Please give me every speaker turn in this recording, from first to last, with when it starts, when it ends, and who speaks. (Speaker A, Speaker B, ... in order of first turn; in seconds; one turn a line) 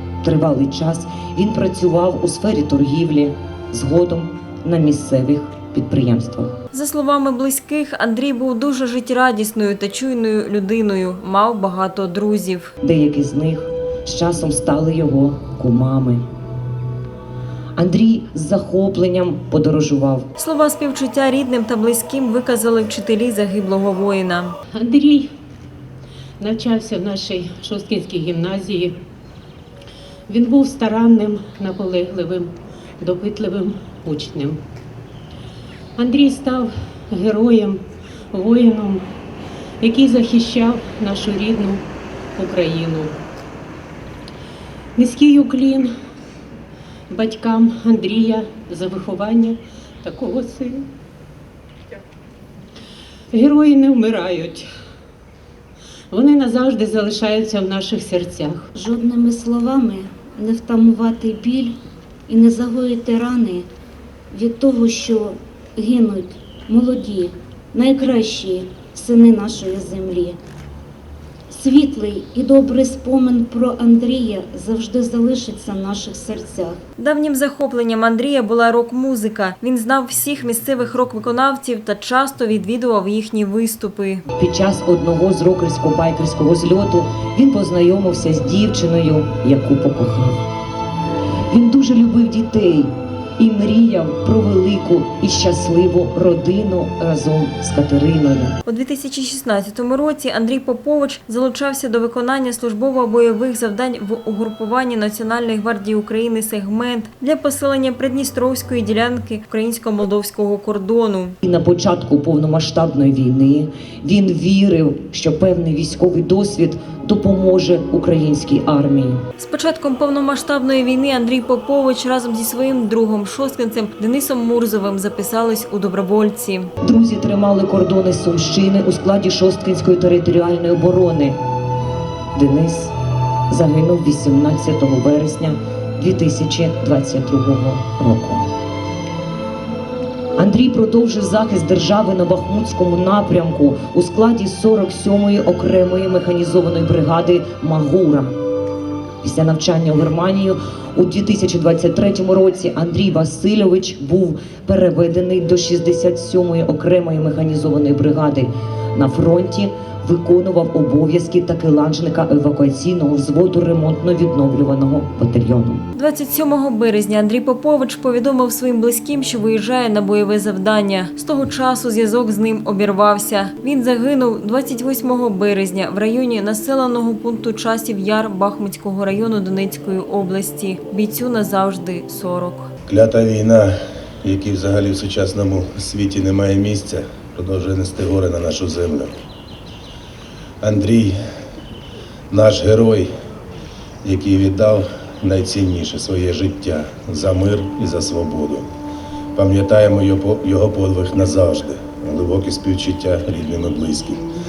Speaker A: 0.2-6.6
Speaker B: 6.7-12.7
Speaker A: 12.8-16.2
Speaker A: 17.8-20.3
Speaker B: 20.4-24.5
Speaker C: 24.7-25.3
Speaker C: 26.4-28.9
Speaker C: 30.3-34.6
Speaker C: 36.0-39.0
Speaker C: 39.8-41.8
Speaker C: 42.4-43.1
Speaker C: 45.0-45.9
Speaker C: 47.1-50.9
Speaker C: 53.3-54.7
Speaker C: 56.1-58.6
Speaker D: 58.7-61.7
Speaker D: 62.3-63.6
Speaker D: 64.3-70.4
Speaker D: 71.5-76.8
Speaker B: 77.0-84.2
Speaker A: 84.3-90.4
Speaker A: 91.5-98.6
Speaker B: 98.7-111.3
Speaker A: 111.4-119.2
Speaker B: 119.4-126.7
Speaker A: 126.8-131.4
Speaker A: 132.3-132.9
Speaker A: 133.5-138.5
Speaker A: 140.3-148.3
Speaker A: 149.2-165.8
Speaker B: 165.9-182.7
Speaker E: 182.9-189.1
Speaker E: 190.6-191.2
Speaker E: 192.3-193.1
Speaker E: 194.0-198.6
Speaker E: 199.3-204.2